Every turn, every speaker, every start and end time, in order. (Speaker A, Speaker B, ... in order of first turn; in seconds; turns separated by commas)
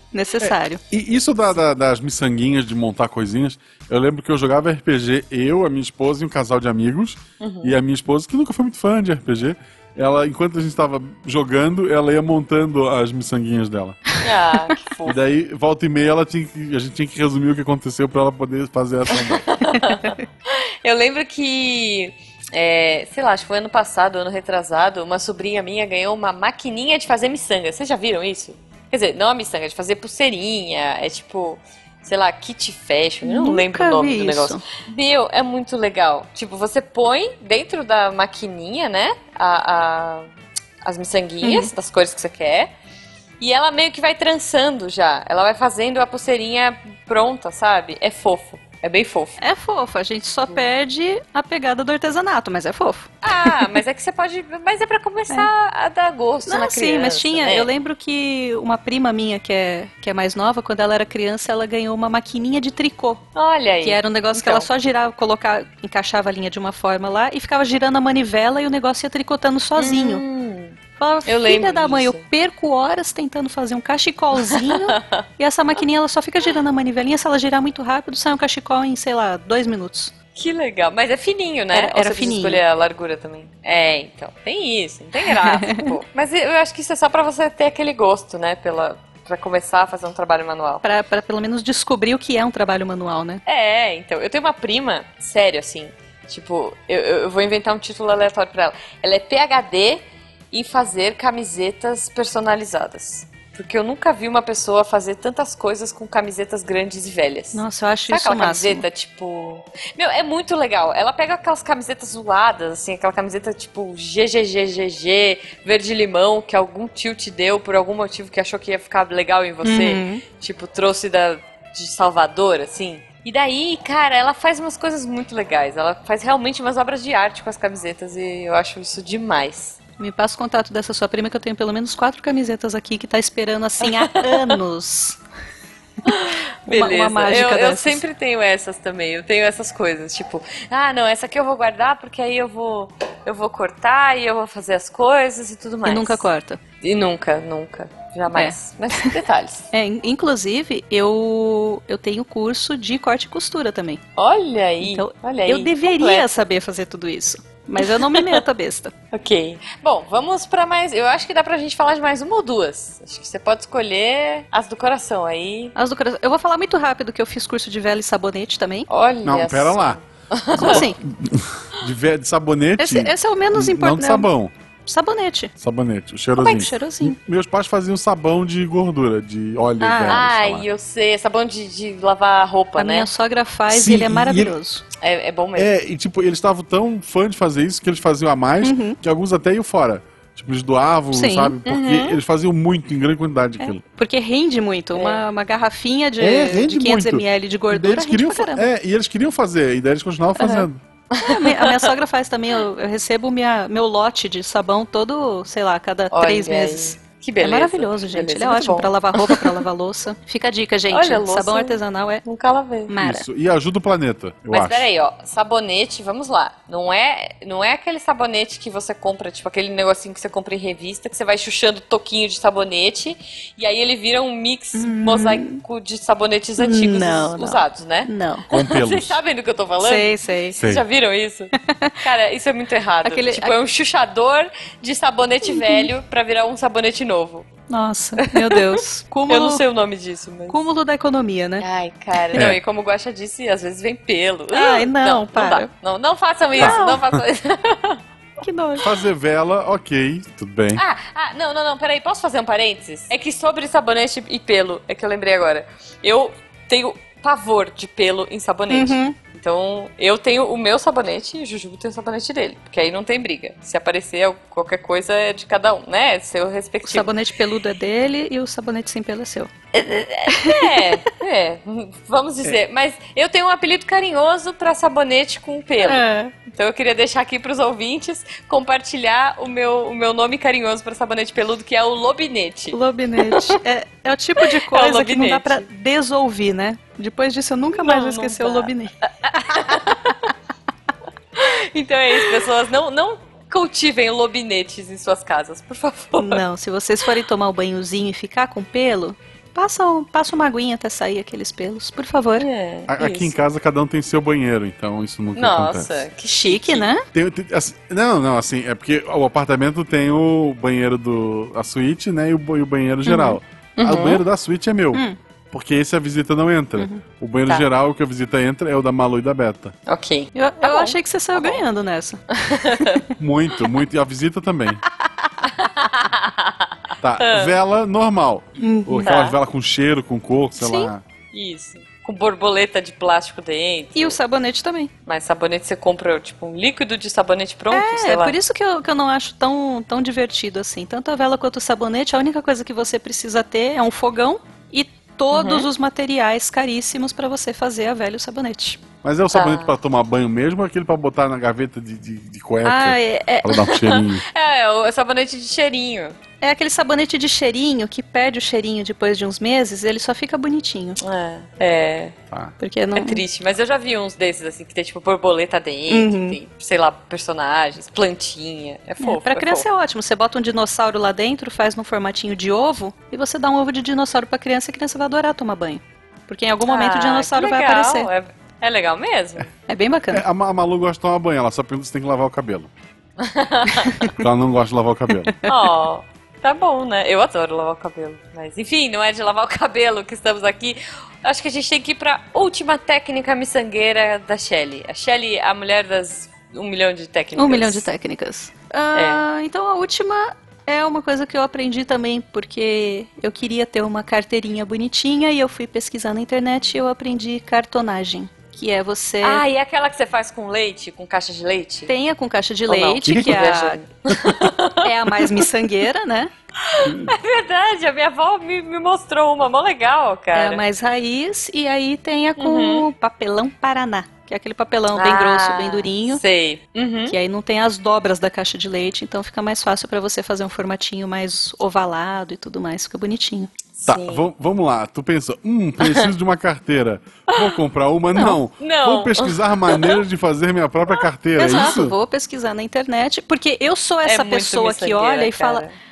Speaker A: 0.1-0.8, Speaker B: 0.4-14.0, Speaker C: 7.4-7.8, Speaker C: 14.2-15.2, Speaker B: 15.0-19.5, Speaker C: 19.1-40.3, Speaker A: 33.2-34.6, Speaker C: 40.8-42.7, Speaker A: 41.4-41.7, Speaker C: 43.4-49.4, Speaker A: 49.4-53.8, Speaker C: 53.2-57.7, Speaker A: 56.5-63.2, Speaker C: 63.4-64.7, Speaker A: 63.8-70.2, Speaker C: 69.8-72.2, Speaker A: 71.0-80.1, Speaker C: 74.4-75.2, Speaker C: 80.3-90.8, Speaker A: 81.7-82.6, Speaker A: 85.2-85.9, Speaker A: 90.8-93.4, Speaker C: 93.5-129.8, Speaker A: 107.5-108.8, Speaker A: 119.6-120.2, Speaker A: 130.0-135.2, Speaker C: 133.8-134.6, Speaker C: 136.0-146.2, Speaker A: 136.1-138.0, Speaker A: 145.8-146.6, Speaker C: 146.8-149.7, Speaker A: 148.3-149.2, Speaker A: 149.7-154.0, Speaker C: 154.2-156.3, Speaker A: 154.8-158.9, Speaker C: 157.8-158.4, Speaker C: 159.1-165.7, Speaker A: 165.8-168.9, Speaker C: 168.9-170.8, Speaker B: 169.2-170.0, Speaker B: 170.6-174.5, Speaker A: 170.6-171.0, Speaker A: 172.8-174.3, Speaker A: 174.9-175.5, Speaker B: 175.6-180.6, Speaker A: 176.4-177.2, Speaker A: 179.8-180.2, Speaker C: 180.1-183.1, Speaker A: 182.8-184.8, Speaker B: 183.7-184.5, Speaker C: 185.0-185.7, Speaker B: 185.6-193.8, Speaker A: 188.6-189.0, Speaker A: 191.1-191.6, Speaker C: 191.6-192.2, Speaker A: 193.6-198.7, Speaker C: 194.9-195.2, Speaker B: 196.2-200.8, Speaker C: 200.4-201.9, Speaker A: 201.2-212.2, Speaker C: 206.1-209.6, Speaker C: 210.9-213.1, Speaker A: 212.9-213.3, Speaker B: 213.0-214.9, Speaker C: 214.5-237.5, Speaker A: 224.8-225.6, Speaker A: 226.6-228.4, Speaker B: 228.5-229.2, Speaker A: 229.8-230.6, Speaker A: 231.6-232.0, Speaker A: 233.0-233.6, Speaker A: 235.4-235.9, Speaker A: 237.7-239.6, Speaker C: 238.2-240.6, Speaker A: 240.5-241.6, Speaker C: 241.6-248.0, Speaker B: 242.3-242.6, Speaker A: 244.5-245.7, Speaker A: 246.6-247.0, Speaker B: 246.6-247.2, Speaker A: 248.4-248.9, Speaker B: 248.8-250.8, Speaker C: 250.7-267.1, Speaker A: 258.7-259.1, Speaker A: 266.9-269.5, Speaker C: 269.7-283.6, Speaker A: 270.3-271.0, Speaker A: 275.8-276.3, Speaker A: 282.7-290.1, Speaker C: 284.4-285.6, Speaker C: 287.7-290.3, Speaker C: 291.4-296.4, Speaker A: 296.2-302.4, Speaker C: 302.4-303.4, Speaker B: 302.9-306.0, Speaker C: 305.4-306.9, Speaker A: 306.3-307.1, Speaker B: 307.1-319.7, Speaker A: 313.1-313.3, Speaker C: 313.8-314.2, Speaker A: 316.8-317.0, Speaker C: 319.9-321.6, Speaker A: 320.4-322.2, Speaker C: 322.3-323.6, Speaker A: 322.7-323.0, Speaker B: 323.2-324.8, Speaker C: 325.4-327.5, Speaker B: 327.0-331.0, Speaker A: 328.6-329.1, Speaker C: 329.0-329.4, Speaker A: 330.6-330.9, Speaker C: 331.3-334.2, Speaker A: 333.9-334.9, Speaker C: 335.1-338.4, Speaker A: 337.7-348.8, Speaker C: 345.3-345.7, Speaker B: 349.0-354.2, Speaker C: 349.3-349.7, Speaker A: 352.6-353.6, Speaker C: 353.5-356.2, Speaker A: 356.4-361.0, Speaker C: 361.0-362.1, Speaker A: 362.6-363.2, Speaker C: 362.9-369.6, Speaker A: 365.9-366.4, Speaker A: 369.0-378.1, Speaker C: 376.7-379.5, Speaker A: 379.7-380.2, Speaker B: 380.1-382.7, Speaker C: 383.2-384.0, Speaker A: 383.7-384.2, Speaker B: 384.1-385.3, Speaker C: 385.4-397.9, Speaker A: 397.4-409.4, Speaker C: 398.9-399.2, Speaker C: 409.2-411.9, Speaker A: 411.9-413.8, Speaker C: 412.7-415.5, Speaker B: 413.1-413.5, Speaker B: 414.1-414.4, Speaker A: 414.8-416.3, Speaker C: 416.6-420.6, Speaker B: 416.8-417.1, Speaker A: 420.3-426.2, Speaker C: 422.4-422.9, Speaker C: 424.9-427.1, Speaker A: 427.1-433.5, Speaker C: 433.8-434.3, Speaker B: 433.9-441.9, Speaker C: 435.8-436.1, Speaker C: 437.3-437.6, Speaker C: 438.6-440.0, Speaker A: 441.4-445.6, Speaker C: 444.1-445.7